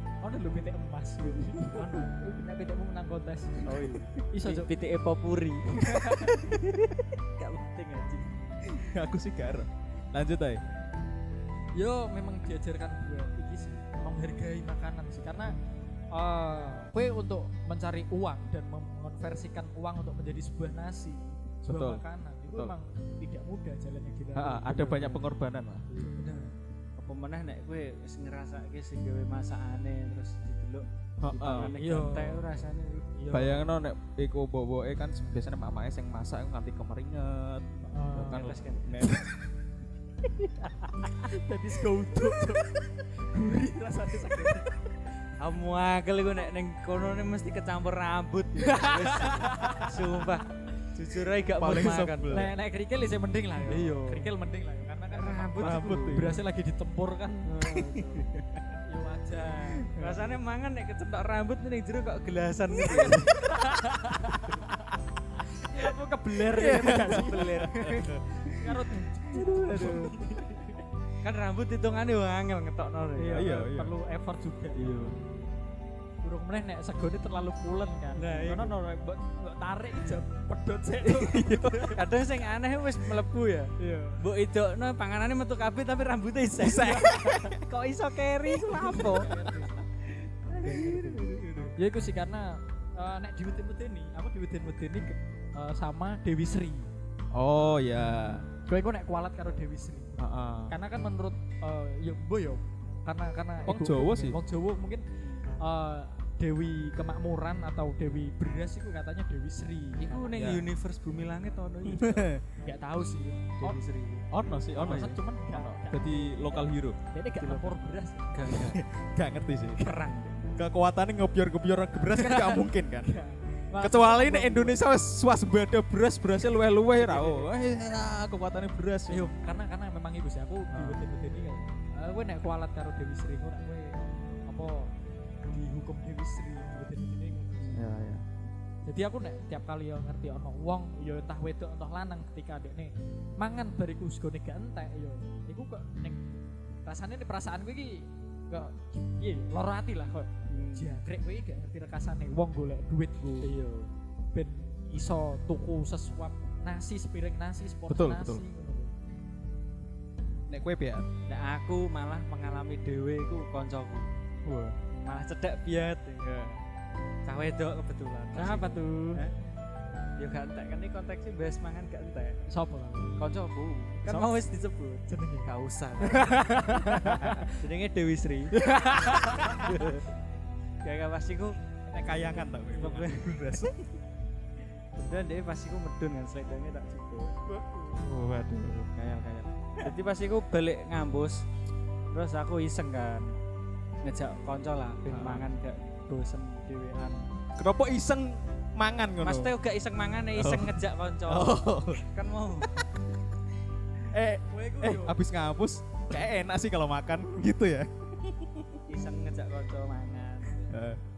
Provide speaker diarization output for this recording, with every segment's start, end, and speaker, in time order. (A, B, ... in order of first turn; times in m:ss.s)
0:00.2-0:04.7 A
0:01.7-0:02.1 B
0:03.6-0:06.7 B
0:05.8-0:06.6 A
0:07.4-0:08.3 B
0:08.6-0:10.6 C
0:11.8-0:15.5 A
0:16.1-0:25.3 A
0:21.6-0:22.8 C
0:24.3-0:25.9 C
0:25.9-0:26.4 B
0:26.2-0:26.5 A
0:27.0-0:33.2 B
0:31.2-0:31.7 C
0:31.6-0:32.4 A
0:33.2-0:33.7 A
0:33.3-0:39.3 C
0:37.8-0:38.5 A
0:38.2-0:39.1 B
0:40.6-0:41.3 B
0:41.2-0:44.8 A
0:45.4-0:52.5 B
0:48.6-0:50.1 A
0:51.6-0:52.5 C
0:52.3-0:57.6 A
0:53.6-0:54.3 B
0:55.1-0:56.4 B
0:55.6-0:56.4 C
0:57.5-0:58.3 B
0:57.7-0:58.7 C
0:58.8-1:00.2 A
0:59.8-1:00.2 C
1:00.0-1:03.3 B
1:02.7-1:10.8 A
1:06.5-1:10.4 C
1:06.6-1:08.0 B
1:11.2-1:13.5 B
1:13.2-1:15.1 A
1:13.3-1:13.9 C
1:14.8-1:15.2 C
1:16.2-1:22.0 A
1:18.2-1:18.8 B
1:21.2-1:22.0 C
1:21.8-1:29.7 B
1:23.8-1:24.2 A
1:26.6-1:27.6 C
1:26.7-1:27.5 A
1:28.5-1:29.3 C
1:28.7-1:29.8 A
1:30.5-1:31.4 B
1:30.6-1:31.7 C
1:30.6-1:36.9 A
1:37.3-1:38.5 C
1:38.7-1:45.0 A
1:40.2-1:40.8 C
1:43.7-1:44.4 C
1:45.2-1:45.5 B
1:45.6-1:50.4 A
1:50.0-1:52.3 B
1:50.3-1:50.6 C
1:51.8-1:52.4 C
1:52.6-1:53.6 A
1:53.6-1:54.3 B
1:54.3-1:57.0 C
1:54.8-1:58.4 A
1:54.8-1:55.2 B
1:57.4-1:57.8 B
1:58.3-1:58.8 B
1:58.5-1:59.9 C
1:59.8-2:00.5 B
2:00.6-2:03.2 C
2:02.1-2:04.8 A
2:03.8-2:09.3 C
2:07.0-2:07.4 B
2:09.1-2:14.9 A
2:10.7-2:11.0 C
2:15.5-2:17.8 A
2:17.7-2:18.2 C
2:18.9-2:33.5 A
2:30.5-2:31.0 B
2:33.4-2:33.9 B
2:34.3-2:38.9 A
2:37.9-2:38.4 C
2:40.5-2:41.1 C
2:41.3-2:44.1 B
2:44.4-2:44.8 C
2:44.9-2:46.3 B
2:46.2-2:46.6 C
2:47.2-2:49.3 B
2:48.4-2:49.2 A
2:50.2-2:52.4 B
2:52.5-2:53.3 A
2:53.2-3:00.1 B
2:54.0-2:54.3 A
2:55.1-2:57.6 A
2:58.5-2:59.9 A
3:00.8-3:01.6 B
3:01.9-3:03.9 C
3:02.0-3:03.1 A
3:02.8-3:03.6 B
3:05.0-3:07.4 B
3:07.5-3:09.9 C
3:09.8-3:11.4 B
3:12.1-3:13.3 B
3:14.0-3:17.2 B
3:15.1-3:15.5 C
3:17.6-3:19.5 C
3:19.2-3:22.8 B
3:20.3-3:22.0 C
3:24.1-3:28.8 C
3:24.5-3:25.2 A
3:28.9-3:30.8 B
3:30.7-3:31.0 C